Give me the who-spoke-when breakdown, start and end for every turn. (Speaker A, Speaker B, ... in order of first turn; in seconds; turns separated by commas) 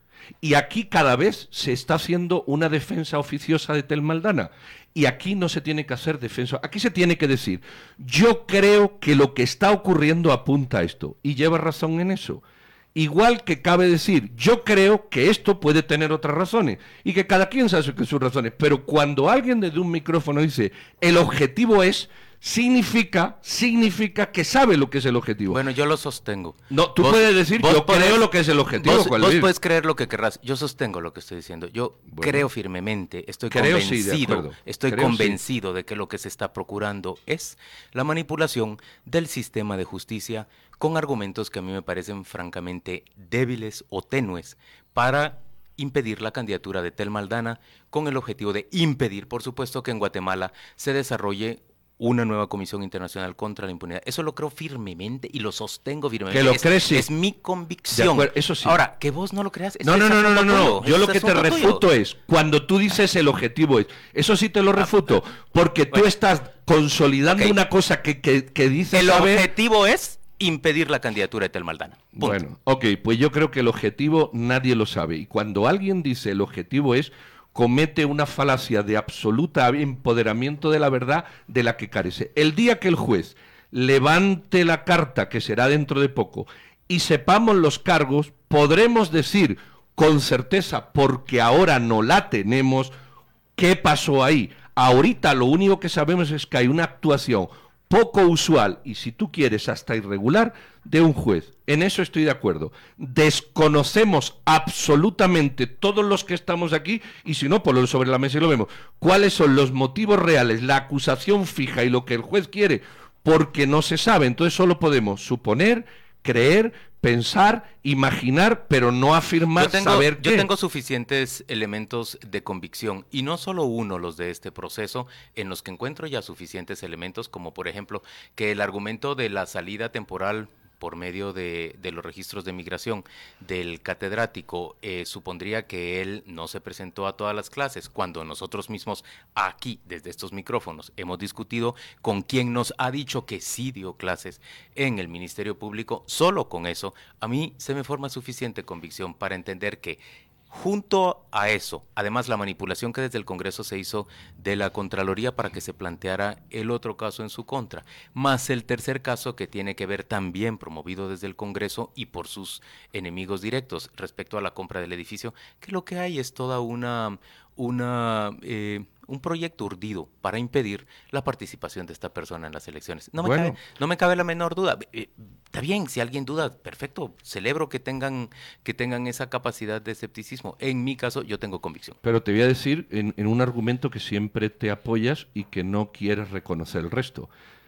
Speaker A: 0.4-12.4, Speaker A: 12.9-25.6, Speaker B: 25.5-28.2, Speaker A: 26.7-29.5, Speaker B: 28.8-61.8, Speaker A: 32.1-32.5, Speaker A: 33.5-35.4, Speaker A: 56.3-57.1, Speaker A: 57.9-58.8, Speaker A: 59.8-69.5, Speaker B: 67.3-67.6, Speaker B: 68.9-72.4, Speaker A: 72.2-92.9, Speaker A: 93.5-120.5, Speaker B: 119.5-150.0, Speaker B: 150.5-182.0, Speaker A: 173.2-173.6, Speaker A: 182.0-187.3